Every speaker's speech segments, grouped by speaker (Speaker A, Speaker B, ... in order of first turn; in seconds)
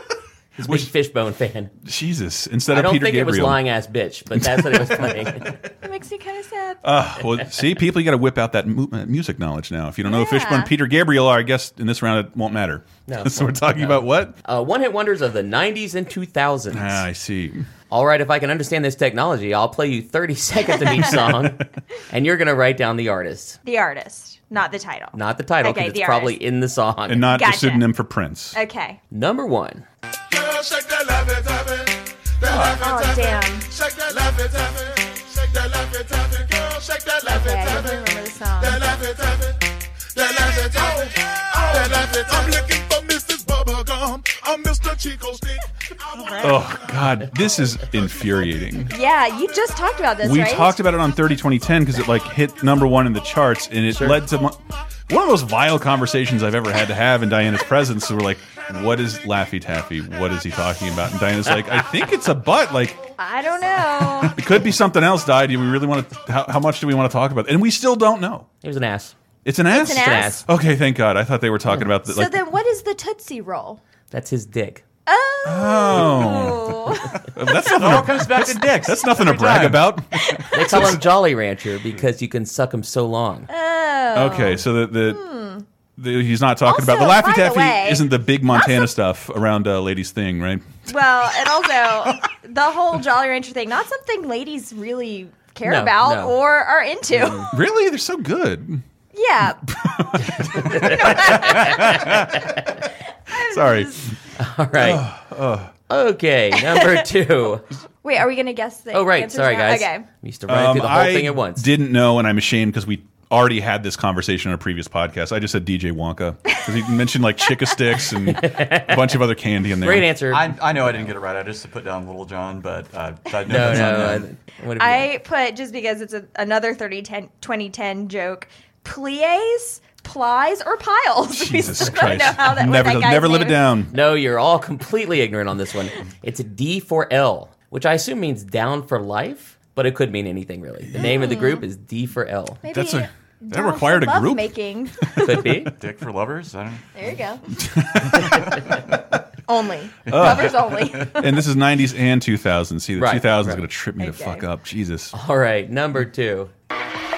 Speaker A: 0.6-1.7, 2.7-5.5, 13.1-17.0, 17.9-23.6, 25.1-27.3, 29.1-29.9, 53.9-54.2, 68.6-69.1, 69.8-70.4, 74.1-74.8, 80.5-83.5, 95.6-96.4, 100.5-102.6, 104.4-105.1, 105.9-107.7, 108.9-111.7, 118.3-119.2, 119.8-120.6, 123.5-125.1, 133.9-142.6, 145.2-145.7, 153.0-153.7, 155.1-156.5
Speaker B: 0.6-0.9, 1.8-3.6, 4.3-5.5, 6.8-14.3, 16.7-17.7, 27.1-28.6, 46.4-48.9, 50.2-63.0, 64.2-68.5, 69.5-72.4, 75.4-81.0, 84.1-85.2, 86.0-90.8, 97.4-98.8, 99.7-102.6, 103.3-104.1, 104.8-105.7, 110.5-120.1, 131.3-133.9, 140.9-141.2, 142.7-144.5, 145.2-145.5, 147.6-149.1, 150.1-155.1
Speaker C: 5.7-6.8, 10.1-10.7, 23.6-26.4, 27.3-27.9, 28.6-29.0, 32.5-33.7, 37.3-38.8, 48.9-50.8, 63.2-64.4, 69.7-70.4, 72.1-73.8, 75.1-77.2, 80.2-80.9, 83.5-85.7, 86.7-88.9, 90.9-97.6, 99.1-102.1, 103.3-104.1, 106.7-107.0, 108.0-110.1, 124.8-133.7, 141.0-141.6, 142.6-145.5, 146.9-147.4, 149.5-151.4, 154.0-154.4
Speaker D: 30.3-38.1, 38.6-47.2
Speaker E: 77.6-80.4, 120.3-124.3, 145.8-146.9, 148.1-148.8, 150.1-151.0